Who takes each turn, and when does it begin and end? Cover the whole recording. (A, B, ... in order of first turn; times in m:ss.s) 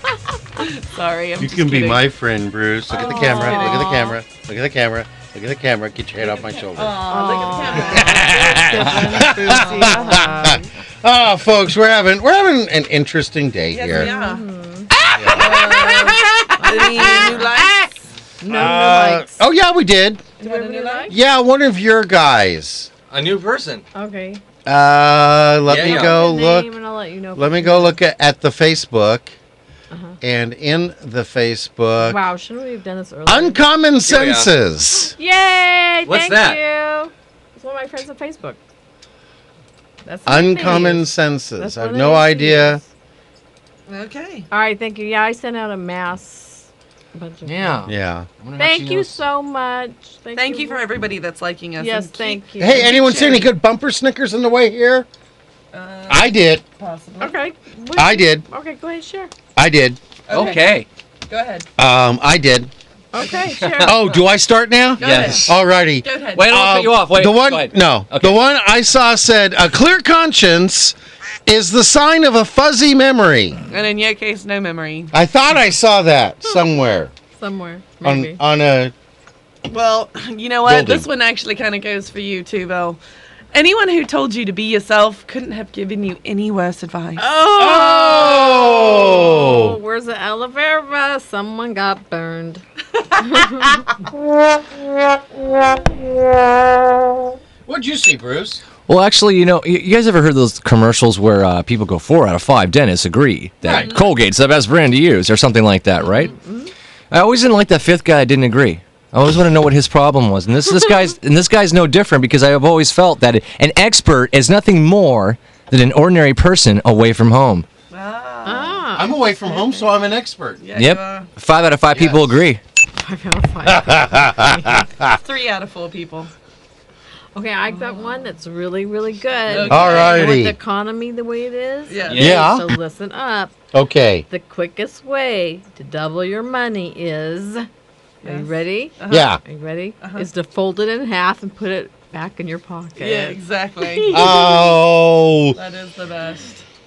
0:00.6-0:02.1 A
0:01.4-0:07.0 B
0:02.9-0:03.9 A
0:02.9-0:04.2 C
0:06.2-0:10.4 A
0:07.0-0:10.7 C
0:07.8-0:14.1 B
0:13.7-0:14.4 A
0:13.9-0:14.9 C
0:15.1-0:17.1 B
0:15.3-0:18.0 A
0:16.6-0:17.5 C
0:18.4-0:19.4 C
0:18.5-0:20.2 B
0:20.4-0:21.1 A
0:20.4-0:21.2 C
0:21.1-0:22.9 B
0:23.1-0:23.8 D
0:23.9-0:24.4 C
0:24.6-0:26.7 B
0:25.7-0:26.2 D
0:25.8-0:28.0 C
0:27.4-0:29.3 B
0:29.9-0:30.2 C
0:30.2-0:32.2 B
0:32.0-0:33.6 C
0:33.3-0:35.1 B
0:34.1-0:34.5 D
0:35.0-0:38.6 C
0:36.0-0:36.6 D
0:40.0-0:42.8 C
0:40.3-0:42.8 B
0:43.9-0:44.5 A
0:44.5-0:47.9 C
0:47.5-0:49.2 D
0:47.9-0:48.3 B
0:48.6-0:50.8 C
0:50.4-0:53.5 A
0:51.8-0:53.2 C
0:52.6-0:55.1 B
0:55.7-0:57.4 A
0:56.1-0:56.6 B
0:57.2-0:59.3 C
0:58.0-0:58.4 B
0:59.6-1:00.0 B
1:00.3-1:01.7 A
1:00.3-1:00.9 D
1:01.8-1:02.7 B
1:03.1-1:04.0 C
1:03.2-1:03.6 A
1:03.6-1:03.9 D
1:03.8-1:11.0 B
1:05.0-1:05.5 A
1:05.0-1:05.5 D
1:06.0-1:06.6 A
1:06.3-1:08.4 D
1:11.5-1:13.6 B
1:13.7-1:15.1 A
1:15.1-1:17.1 B
1:17.4-1:18.4 C
1:18.0-1:18.9 B
1:19.7-1:23.0 A
1:20.7-1:21.1 B
1:23.5-1:27.3 A
1:27.2-1:32.6 C
1:27.6-1:29.8 B
1:33.2-1:33.8 C
1:37.7-1:38.6 B
1:38.9-1:46.3 D
1:43.6-1:44.1 A
1:43.6-1:43.9 B
1:46.0-1:46.7 C
1:47.1-1:57.7 D
1:57.9-1:58.9 A
1:58.5-1:59.7 C
1:59.0-2:00.6 B
2:00.6-2:01.3 A
2:00.8-2:02.6 D
2:02.0-2:02.2 B
2:03.0-2:04.9 C
2:03.7-2:05.2 B
2:05.2-2:06.3 A
2:07.4-2:13.5 C
2:07.7-2:08.3 A
2:09.5-2:10.3 A
2:09.7-2:10.6 B
2:11.9-2:12.4 A
2:12.1-2:12.5 D
2:12.1-2:12.7 B
2:13.7-2:14.2 B
2:14.3-2:17.7 C
2:18.2-2:19.4 A
2:18.2-2:24.8 C
2:19.1-2:19.4 B
2:20.0-2:20.3 A
2:23.0-2:24.3 A
2:24.1-2:25.6 B
2:25.6-2:26.6 A